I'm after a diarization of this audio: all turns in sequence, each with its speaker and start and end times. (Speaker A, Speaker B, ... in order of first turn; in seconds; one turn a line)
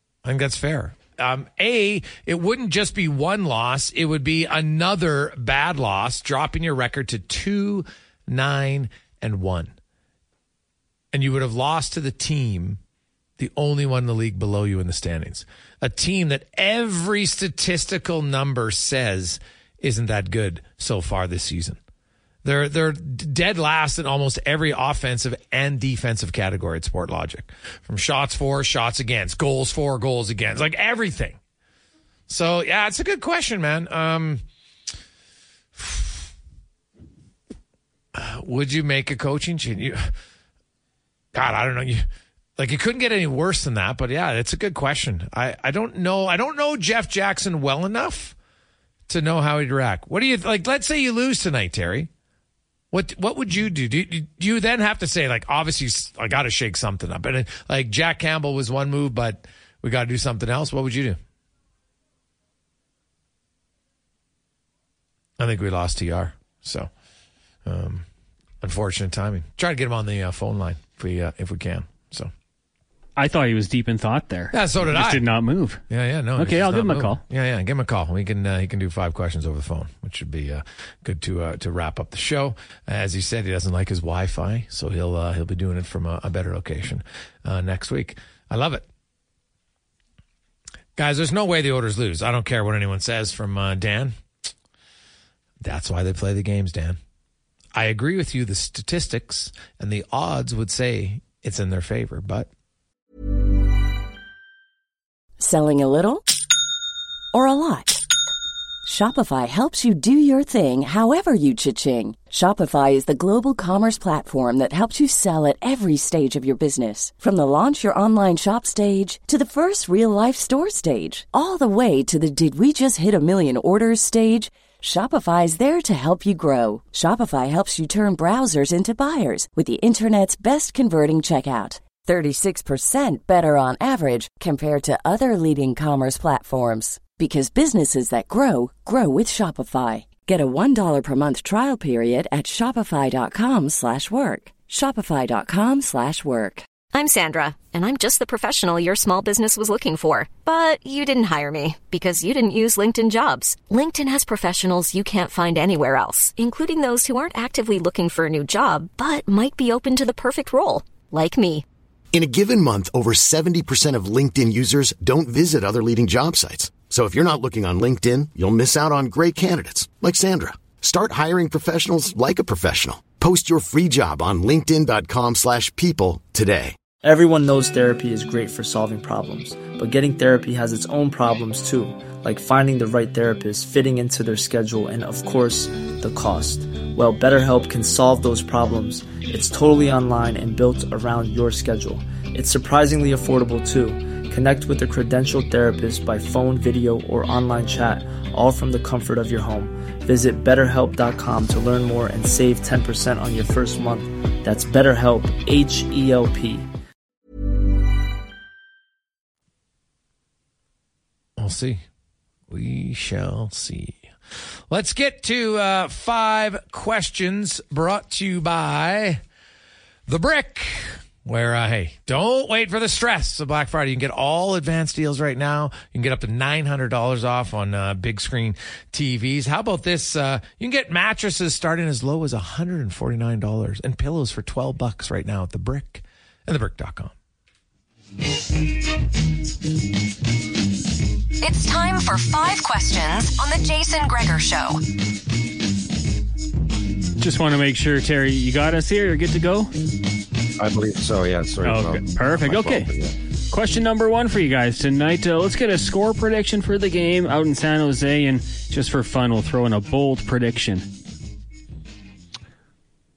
Speaker A: 0.2-9.7
Speaker A: 11.1-12.8
Speaker A: 13.4-21.8
Speaker A: 22.4-31.4
Speaker A: 32.3-34.4
Speaker A: 35.8-36.2
Speaker A: 38.1-40.1
Speaker A: 41.3-42.0
Speaker A: 42.6-48.3
Speaker A: 49.1-52.1
Speaker A: 52.9-61.2
Speaker A: 65.4-66.9
Speaker A: 67.6-68.0
Speaker A: 68.6-72.3
Speaker B: 73.2-75.8
Speaker A: 74.5-75.2
Speaker A: 75.9-88.8
Speaker B: 76.4-77.2
Speaker A: 91.0-94.1
Speaker A: 95.6-97.0
Speaker A: 97.7-102.5
Speaker C: 105.4-106.2
Speaker C: 107.3-108.0
Speaker C: 108.8-146.7
Speaker D: 146.9-161.6
Speaker E: 162.1-176.8
Speaker F: 177.0-206.7
Speaker A: 211.4-211.8
Speaker A: 212.5-214.0
Speaker A: 214.7-219.2
Speaker A: 220.1-237.1
Speaker D: 241.4-244.8
Speaker B: 247.2-249.7
Speaker G: 250.6-253.1
Speaker B: 251.6-252.9
Speaker B: 253.5-260.9